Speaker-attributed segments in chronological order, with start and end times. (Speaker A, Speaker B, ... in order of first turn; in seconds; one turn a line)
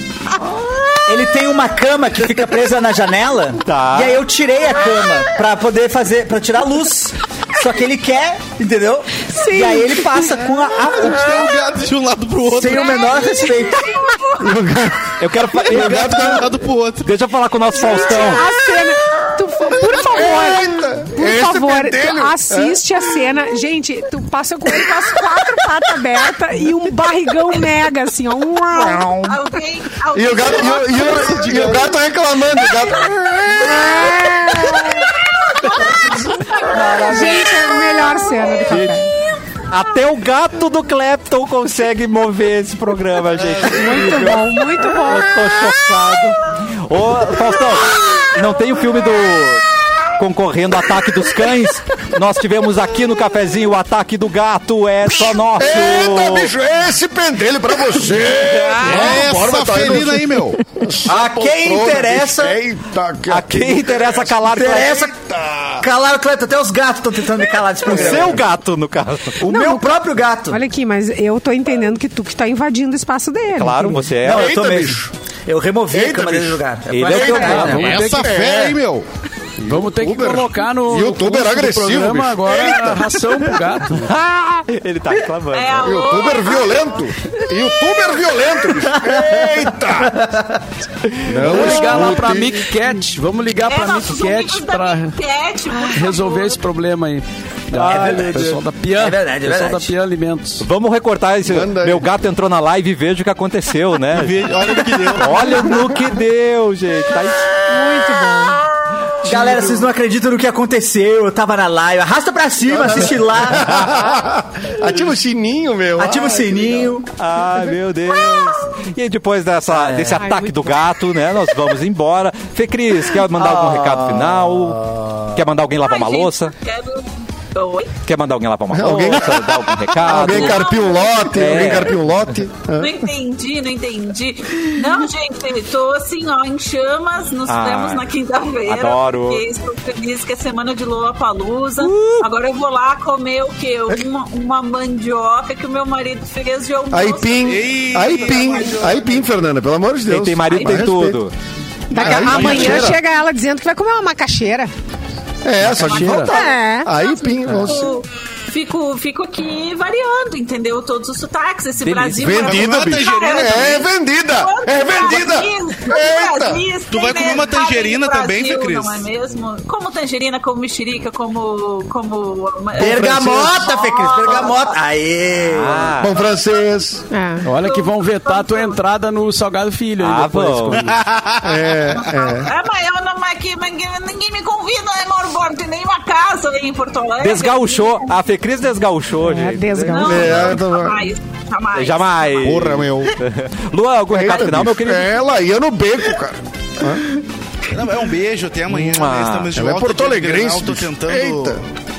Speaker A: 1.0-11.5
Speaker B: 3.6-4.2
Speaker C: 9.3-10.4
Speaker D: 10.9-13.2
Speaker A: 12.4-14.0
Speaker E: 12.7-14.4
Speaker C: 12.8-13.8
Speaker F: 14.4-16.6
Speaker B: 15.2-16.4
Speaker D: 15.6-17.1
Speaker B: 17.0-18.5
Speaker C: 17.7-29.1
Speaker F: 19.6-23.0
Speaker A: 28.7-29.3
Speaker E: 29.2-31.8
Speaker F: 30.1-33.7
Speaker D: 31.4-31.7
Speaker C: 33.5-35.1
Speaker B: 36.6-37.8
Speaker C: 36.7-39.1
Speaker B: 38.7-39.0
Speaker B: 39.7-49.6
Speaker C: 43.6-45.3
Speaker B: 50.2-56.5
Speaker F: 55.5-65.9
Speaker B: 58.4-59.2
Speaker D: 58.8-60.6
Speaker A: 61.0-62.6
Speaker B: 63.3-65.0
Speaker A: 64.5-65.1
Speaker A: 65.8-68.5
Speaker F: 67.8-68.4
Speaker B: 67.9-69.8
Speaker A: 69.4-70.6
Speaker C: 69.5-74.1
Speaker B: 73.5-74.6
Speaker F: 74.2-75.1
Speaker A: 74.2-78.1
Speaker F: 75.9-78.8
Speaker B: 76.9-77.9
Speaker G: 77.5-78.4
Speaker D: 77.8-79.0
Speaker G: 79.6-84.1
Speaker F: 79.6-83.2
Speaker B: 83.9-86.0
Speaker E: 85.5-86.8
Speaker F: 85.8-90.3
Speaker A: 88.8-90.6
Speaker F: 91.2-92.7
Speaker G: 91.3-95.2
Speaker E: 93.5-96.6
Speaker G: 95.7-100.7
Speaker A: 97.7-99.9
Speaker B: 97.7-98.4
Speaker B: 100.6-104.5
Speaker F: 101.5-102.1
Speaker D: 104.1-105.8
Speaker B: 105.2-107.6
Speaker C: 107.7-108.6
Speaker A: 107.7-108.4
Speaker A: 109.2-113.9
Speaker F: 112.6-117.0
Speaker A: 116.0-117.1
Speaker B: 117.2-124.8
Speaker A: 119.7-120.2
Speaker C: 120.2-120.8
Speaker A: 123.3-125.4
Speaker B: 125.3-126.5
Speaker E: 125.8-128.0
Speaker B: 128.0-130.7
Speaker F: 128.7-133.1
Speaker E: 130.1-131.9
Speaker B: 131.4-132.0
Speaker E: 132.7-149.1
Speaker B: 137.5-138.0
Speaker B: 138.7-139.4
Speaker F: 146.9-151.2
Speaker D: 147.4-149.3
Speaker B: 150.1-151.3
Speaker E: 150.4-150.8
Speaker C: 151.9-154.7
Speaker F: 151.9-152.9
Speaker G: 152.0-153.0
Speaker F: 155.4-158.0
Speaker G: 155.6-156.3
Speaker E: 155.9-156.4
Speaker C: 156.1-156.9
Speaker E: 157.2-174.8
Speaker B: 161.8-162.4
Speaker F: 162.2-166.6
Speaker D: 162.4-163.8
Speaker D: 166.9-169.1
Speaker A: 172.7-175.9
Speaker F: 172.8-173.5
Speaker B: 175.5-176.1
Speaker F: 176.0-177.0
Speaker C: 177.1-177.4
Speaker G: 177.4-181.0
Speaker E: 177.6-178.8
Speaker B: 180.0-180.8
Speaker D: 180.7-181.7
Speaker F: 181.4-182.5
Speaker E: 181.9-188.1
Speaker B: 187.2-190.6
Speaker C: 189.2-190.3
Speaker E: 189.9-192.6
Speaker F: 190.0-191.1
Speaker B: 191.7-195.1
Speaker D: 192.4-193.1
Speaker F: 194.1-197.1
Speaker D: 197.7-201.6
Speaker B: 198.7-199.5
Speaker F: 199.5-201.6